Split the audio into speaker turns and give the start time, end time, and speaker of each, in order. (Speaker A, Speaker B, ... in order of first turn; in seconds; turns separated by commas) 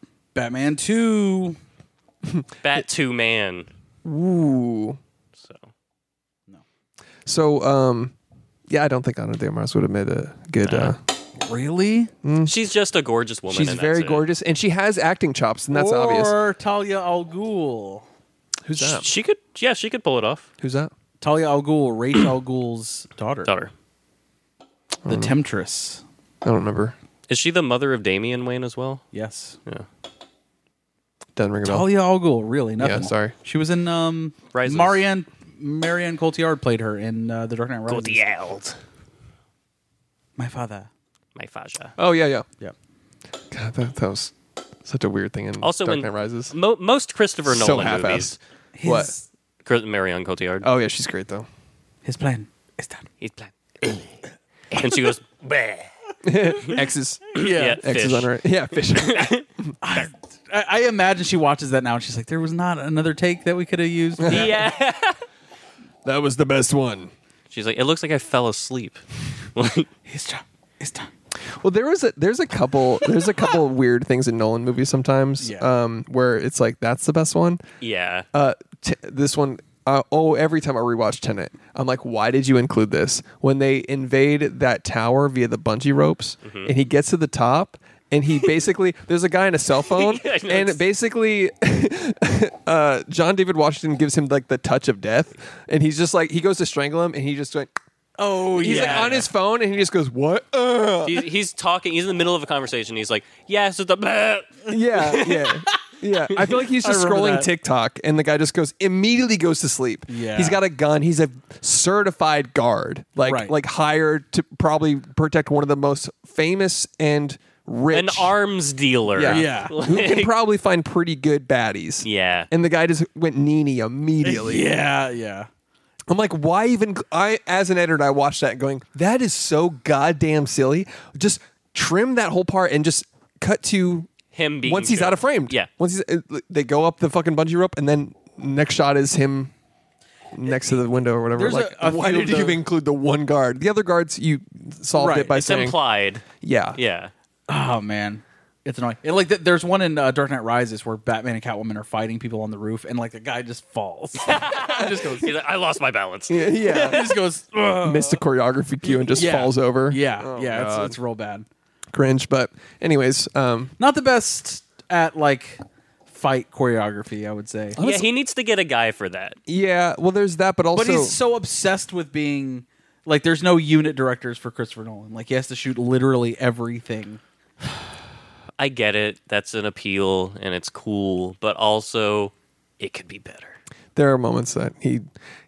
Speaker A: 0.3-1.6, Speaker B: 2.6-3.7, Speaker C: 4.0-5.0, Speaker B: 5.3-5.7, Speaker C: 7.2-8.1, Speaker C: 8.7-11.0, Speaker B: 10.6-10.9, Speaker A: 11.4-12.1, Speaker C: 12.2-12.5, Speaker B: 12.4-14.2, Speaker C: 13.5-16.4, Speaker A: 15.7-18.1, Speaker C: 18.6-19.1, Speaker B: 18.8-20.5, Speaker C: 20.6-20.9, Speaker A: 21.2-23.5, Speaker B: 23.4-23.7, Speaker C: 25.0-25.3, Speaker A: 25.1-26.0, Speaker C: 26.4-26.9, Speaker B: 27.3-29.1, Speaker A: 29.1-29.6, Speaker C: 31.4-31.9, Speaker A: 31.6-38.2, Speaker C: 32.8-33.3, Speaker B: 34.5-35.0, Speaker B: 37.9-38.8, Speaker A: 40.4-40.9, Speaker B: 41.3-41.9, Speaker C: 42.0-42.5, Speaker C: 43.5-46.5, Speaker B: 45.6-48.4, Speaker C: 47.5-49.1, Speaker A: 48.8-49.2, Speaker B: 49.6-50.7, Speaker C: 50.6-51.5, Speaker A: 52.0-53.0, Speaker B: 53.2-54.1, Speaker B: 54.7-55.9, Speaker C: 56.2-59.7, Speaker A: 57.4-57.8, Speaker B: 57.4-58.3, Speaker B: 58.9-59.4, Speaker A: 59.8-64.5, Speaker C: 64.2-64.5, Speaker B: 64.3-65.2, Speaker C: 66.0-67.1, Speaker B: 67.5-69.0, Speaker B: 69.5-69.9, Speaker A: 70.0-71.1, Speaker C: 71.5-77.6, Speaker A: 75.4-75.7, Speaker B: 77.8-78.2, Speaker C: 78.3-97.7, Speaker B: 86.4-86.7, Speaker B: 89.8-90.8, Speaker A: 98.2-99.3, Speaker C: 98.6-101.2, Speaker B: 98.6-99.2, Speaker B: 101.0-105.5, Speaker C: 104.7-118.3, Speaker A: 106.7-107.5, Speaker A: 110.1-110.6, Speaker A: 113.2-113.5, Speaker B: 117.9-120.3, Speaker C: 119.1-124.7, Speaker A: 119.2-119.7, Speaker B: 122.0-122.5, Speaker A: 124.2-125.5, Speaker C: 126.1-134.1, Speaker B: 134.3-135.7, Speaker C: 134.6-139.5, Speaker C: 140.3-145.8, Speaker A: 141.3-142.6, Speaker A: 144.9-145.6, Speaker B: 145.3-147.1, Speaker C: 146.4-146.8, Speaker A: 147.5-155.3, Speaker B: 154.2-157.2, Speaker C: 156.3-157.1, Speaker A: 156.7-158.2, Speaker C: 157.8-160.9, Speaker A: 159.1-161.4, Speaker C: 161.9-163.7, Speaker A: 163.8-167.8, Speaker C: 167.8-168.1, Speaker B: 167.8-169.4, Speaker C: 169.5-171.2, Speaker A: 170.7-177.2, Speaker B: 178.6-183.6, Speaker C: 183.9-185.1